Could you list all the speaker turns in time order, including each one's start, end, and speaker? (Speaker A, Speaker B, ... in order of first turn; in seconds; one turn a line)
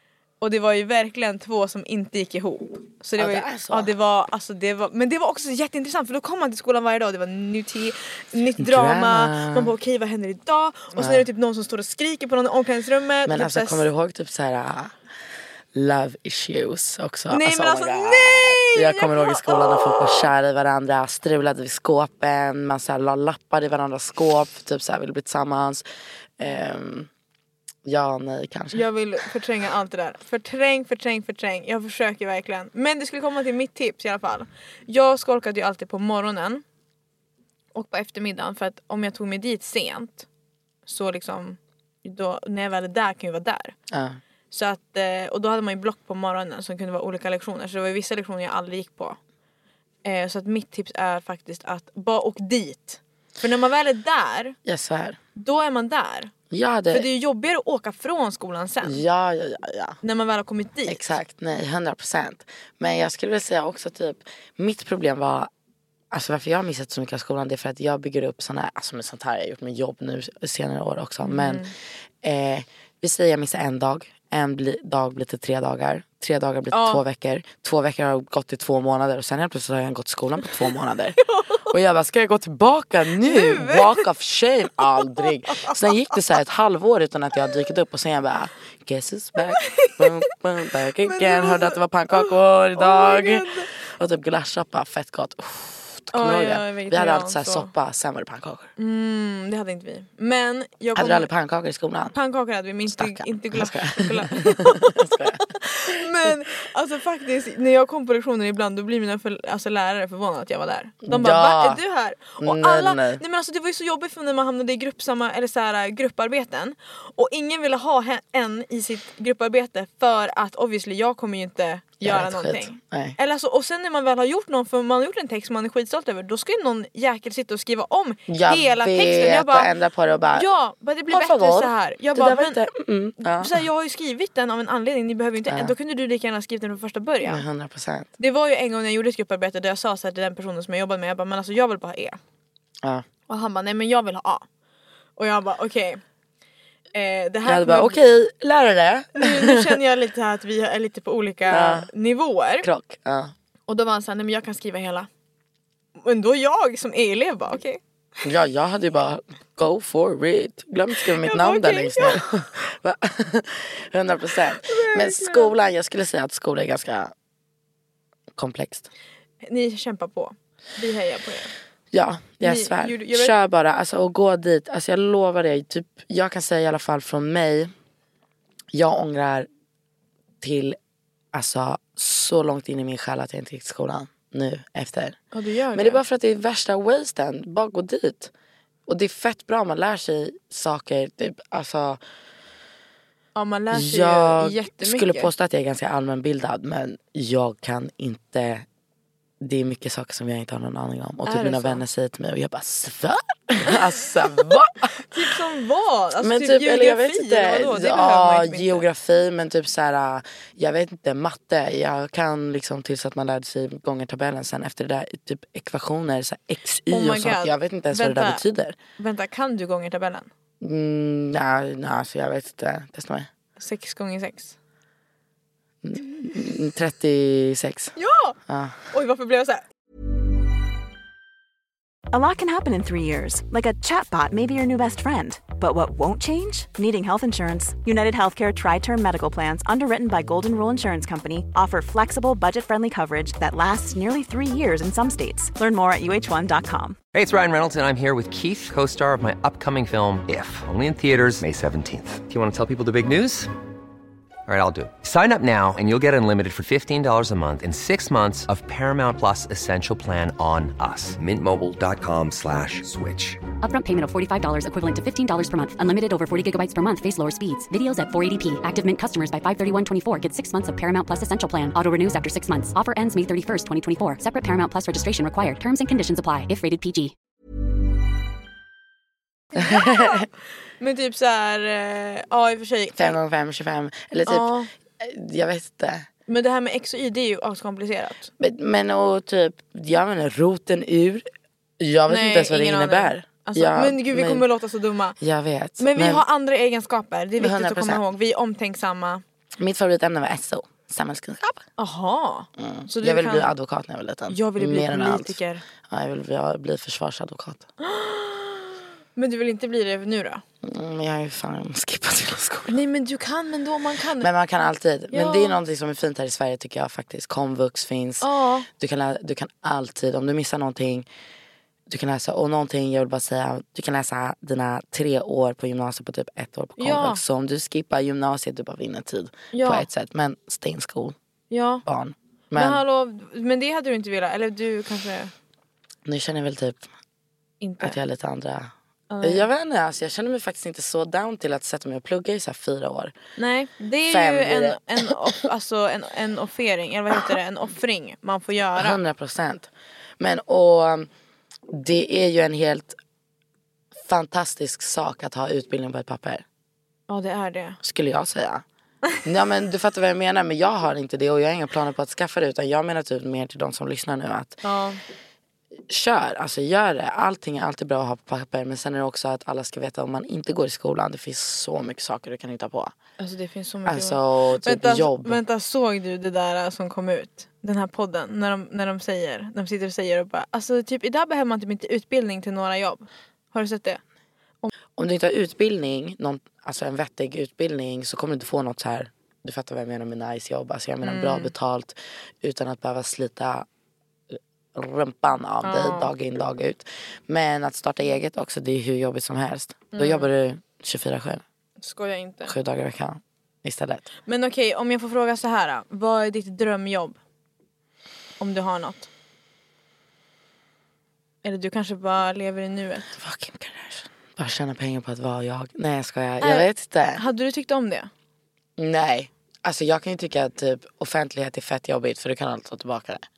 Speaker A: 0.4-13.9
Speaker B: 3.2-3.9
Speaker B: 8.6-9.7
Speaker B: 10.9-11.3
Speaker B: 13.2-14.9
Speaker B: 15.7-25.8
Speaker A: 17.3-20.3
Speaker B: 26.4-27.1
Speaker B: 27.8-28.9
Speaker A: 28.7-36.6
Speaker A: 37.7-40.3
Speaker A: 40.9-43.7
Speaker B: 43.9-44.2
Speaker A: 44.5-49.2
Speaker A: 50.0-54.6
Speaker B: 54.6-55.2
Speaker A: 55.4-56.3
Speaker B: 56.5-57.1
Speaker A: 56.9-59.0
Speaker B: 58.8-60.0
Speaker A: 60.0-61.0
Speaker B: 60.9-65.5
Speaker B: 66.1-71.7
Speaker A: 71.2-71.7
Speaker B: 72.2-98.7
Speaker A: 76.7-77.0
Speaker A: 81.3-81.7
Speaker A: 83.2-84.0
Speaker A: 85.0-85.8
Speaker A: 89.6-90.3
Speaker A: 91.0-93.7
Speaker A: 96.1-97.7
Speaker A: 98.8-101.3
Speaker B: 101.0-102.1
Speaker A: 102.1-129.7
Speaker B: 102.9-106.3
Speaker B: 111.0-111.8
Speaker B: 112.4-113.2
Speaker B: 122.0-123.2
Speaker B: 128.3-130.5
Speaker A: 130.3-132.6
Speaker B: 131.1-133.6
Speaker A: 133.2-137.4
Speaker B: 135.5-135.7
Speaker B: 137.2-138.1
Speaker A: 138.2-142.2
Speaker A: 143.3-144.4
Speaker A: 145.2-146.0
Speaker A: 146.9-147.9
Speaker B: 147.4-149.8
Speaker A: 149.2-152.7
Speaker B: 151.5-151.9
Speaker B: 152.6-153.3
Speaker A: 153.7-155.1
Speaker A: 156.0-157.8
Speaker B: 158.2-167.1
Speaker A: 161.2-162.2
Speaker A: 164.6-165.5
Speaker B: 168.3-168.9
Speaker A: 169.4-171.5
Speaker B: 171.9-177.7
Speaker A: 172.4-173.3
Speaker B: 178.7-179.5
Speaker B: 180.4-180.8
Speaker B: 181.3-185.2
Speaker A: 185.3-186.0
Speaker B: 185.7-188.3
Speaker B: 188.9-192.0
Speaker A: 193.3-195.3
Speaker B: 193.7-198.7
Speaker B: 199.4-205.3
Speaker A: 201.2-201.8
Speaker A: 205.0-208.8
Speaker B: 206.2-218.8
Speaker A: 216.9-218.4
Speaker A: 219.0-220.3
Speaker B: 220.6-223.3
Speaker A: 223.6-224.5
Speaker B: 225.8-227.9
Speaker A: 227.9-228.3
Speaker B: 228.5-228.9
Speaker A: 228.9-229.6
Speaker C: 232.1-247.0
Speaker D: 247.1-253.5
Speaker D: 254.5-263.5
Speaker E: 263.5-277.1
Speaker A: 279.5-280.3
Speaker B: 279.5-280.3
Speaker A: 280.8-283.1
Speaker B: 282.9-286.1
Speaker A: 284.3-284.7
Speaker A: 286.3-288.3
Speaker B: 288.4-291.3
Speaker B: 291.8-294.4
Speaker A: 292.1-295.1
Speaker B: 295.2-296.2
Speaker A: 295.8-299.2
Speaker B: 297.4-298.0
Speaker B: 299.6-301.6
Speaker A: 301.8-303.5
Speaker B: 302.6-307.6
Speaker A: 304.3-305.6
Speaker A: 307.8-310.4
Speaker B: 310.6-312.8
Speaker A: 312.7-314.3
Speaker B: 314.2-321.1
Speaker A: 315.1-315.6
Speaker A: 318.2-318.7
Speaker B: 321.9-331.1
Speaker A: 326.8-327.2
Speaker A: 329.5-329.9
Speaker A: 331.5-331.8
Speaker B: 331.8-332.8
Speaker A: 332.5-335.3
Speaker B: 336.0-336.9
Speaker A: 337.6-338.0
Speaker B: 337.8-338.7
Speaker A: 339.1-339.5
Speaker B: 339.2-343.1
Speaker A: 343.4-349.0
Speaker B: 344.0-345.3
Speaker B: 348.8-351.1
Speaker B: 351.7-353.0
Speaker B: 354.0-356.4
Speaker A: 357.1-357.8
Speaker B: 357.8-358.6
Speaker B: 359.2-364.6
Speaker A: 364.6-365.0
Speaker B: 365.9-372.9
Speaker A: 373.2-384.0
Speaker B: 373.8-375.4
Speaker B: 385.0-393.7
Speaker A: 391.0-391.5
Speaker B: 394.3-401.4
Speaker A: 395.6-396.1
Speaker A: 399.9-400.3
Speaker A: 401.8-402.5
Speaker B: 402.5-404.1
Speaker A: 404.3-407.2
Speaker A: 408.4-409.1
Speaker A: 411.4-413.1
Speaker B: 413.1-417.2
Speaker A: 416.4-418.1
Speaker B: 418.8-423.2